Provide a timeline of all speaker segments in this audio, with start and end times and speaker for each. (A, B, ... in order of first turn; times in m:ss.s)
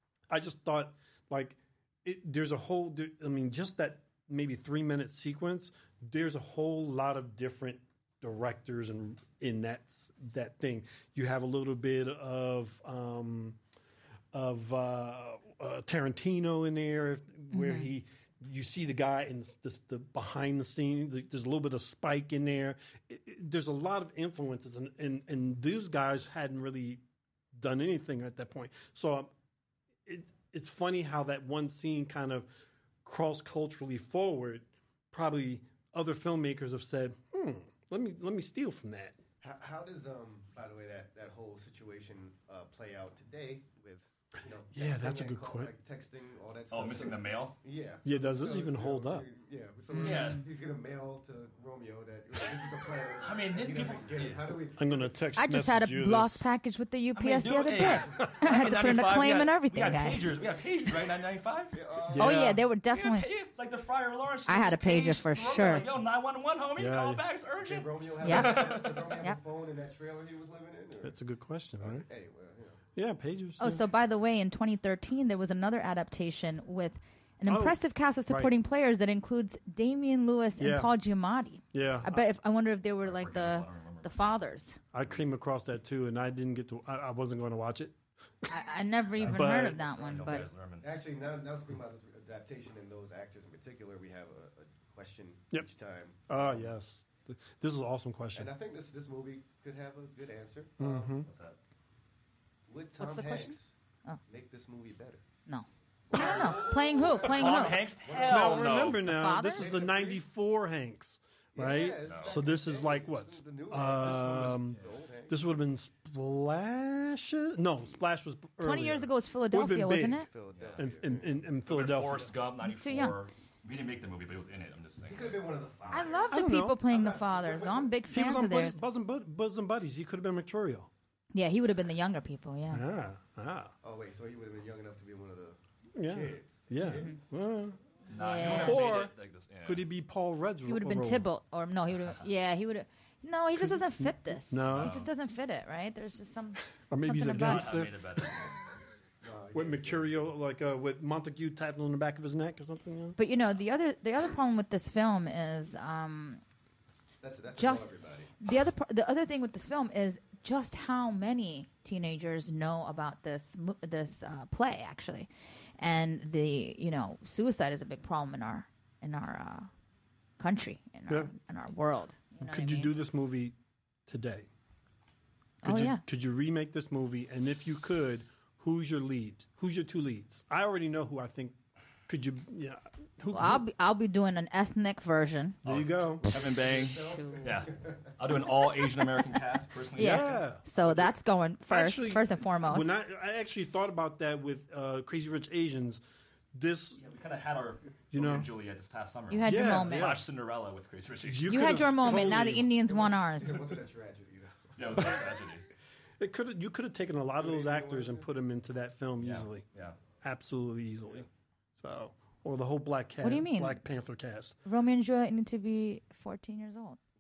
0:00.3-0:13.6 A
0:14.3-0:27.0 A
0:17.5-0:17.9 B
0:27.5-0:29.3 A
0:30.1-0:32.5 A
0:33.0-0:39.2 A
0:39.4-0:55.2 C
0:44.7-0:45.7 A
0:46.7-0:47.6 D
0:48.0-0:49.2 A
0:49.9-0:50.4 B
0:50.0-0:50.5 D
0:53.2-0:54.6 D
0:54.8-0:56.5 A
0:55.4-1:00.4 B
0:57.2-1:01.8 D
1:01.7-1:02.5 C
1:02.1-1:02.6 A
1:02.2-1:03.3 B
1:02.9-1:09.2 D
1:04.5-1:05.9 B
1:06.8-1:07.2 A
1:07.6-1:11.2 C
1:08.2-1:08.7 B
1:11.0-1:12.1 A
1:11.8-1:12.8 C
1:13.0-1:13.9 A
1:13.6-1:24.8 B
1:17.5-1:18.5 A
1:20.6-1:20.9 A
1:21.7-1:22.2 A
1:21.8-1:22.1 D
1:23.0-1:24.3 D
1:24.9-1:28.0 A
1:28.5-1:30.5 B
1:29.2-1:31.0 D
1:29.2-1:29.8 A
1:29.2-1:36.7 C
1:36.3-1:38.5 A
1:38.3-1:41.2 C
1:40.8-1:41.3 A
1:41.2-1:41.6 D
1:42.7-1:45.2 C
1:43.0-1:44.2 B
1:45.5-1:47.8 B
1:46.1-1:49.0 C
1:47.1-1:49.0 D
1:48.2-1:54.8 A
1:49.0-1:49.7 B
1:49.5-1:50.2 C
1:51.6-1:55.4 C
1:52.0-1:52.4 D
1:54.0-1:55.0 D
1:55.3-2:02.4 A
1:58.6-2:00.3 B
2:00.3-2:01.4 C
2:00.5-2:00.9 D
2:01.7-2:06.1 D
2:02.6-2:03.2 B
2:05.1-2:08.0 C
2:05.9-2:08.8 B
2:06.3-2:06.8 A
2:08.1-2:10.9 A
2:11.3-2:12.8 B
2:12.7-2:13.7 A
2:13.8-2:17.2 C
2:16.0-2:17.8 A
2:18.1-2:19.9 D
2:18.1-2:18.8 B
2:18.4-2:19.1 A
2:19.6-2:21.3 A
2:20.7-2:27.7 B
2:22.0-2:22.3 D
2:23.6-2:25.0 A
2:24.7-2:25.1 D
2:26.9-2:28.0 A
2:27.3-2:28.6 D
2:29.2-2:30.3 C
2:29.5-2:33.2 A
2:33.2-2:36.4 B
2:37.2-2:38.3 C
2:37.6-2:49.7 B
2:50.4-2:53.0 B
2:52.4-2:53.6 A
2:54.1-2:54.5 A
2:55.6-2:56.0 B
2:55.6-3:03.6 A
3:03.3-3:05.6 B
3:05.6-3:06.3 A
3:05.6-3:10.4 D
3:06.5-3:08.1 C
3:07.1-3:07.6 B
3:10.0-3:12.9 B
3:10.0-3:11.1 A
3:11.7-3:16.0 A
3:16.5-3:17.0 A
3:17.0-3:22.0 D
3:18.1-3:18.5 A
3:19.3-3:20.1 B
3:19.5-3:20.2 A
3:21.2-3:22.7 A
3:21.5-3:23.6 B
3:22.3-3:25.4 C
3:24.8-3:25.7 D
3:26.2-3:29.6 A
3:27.4-3:28.3 C
3:29.2-3:30.0 D
3:30.2-3:31.3 A
3:31.8-3:34.6 A
3:33.2-3:33.8 B
3:34.6-3:37.0 B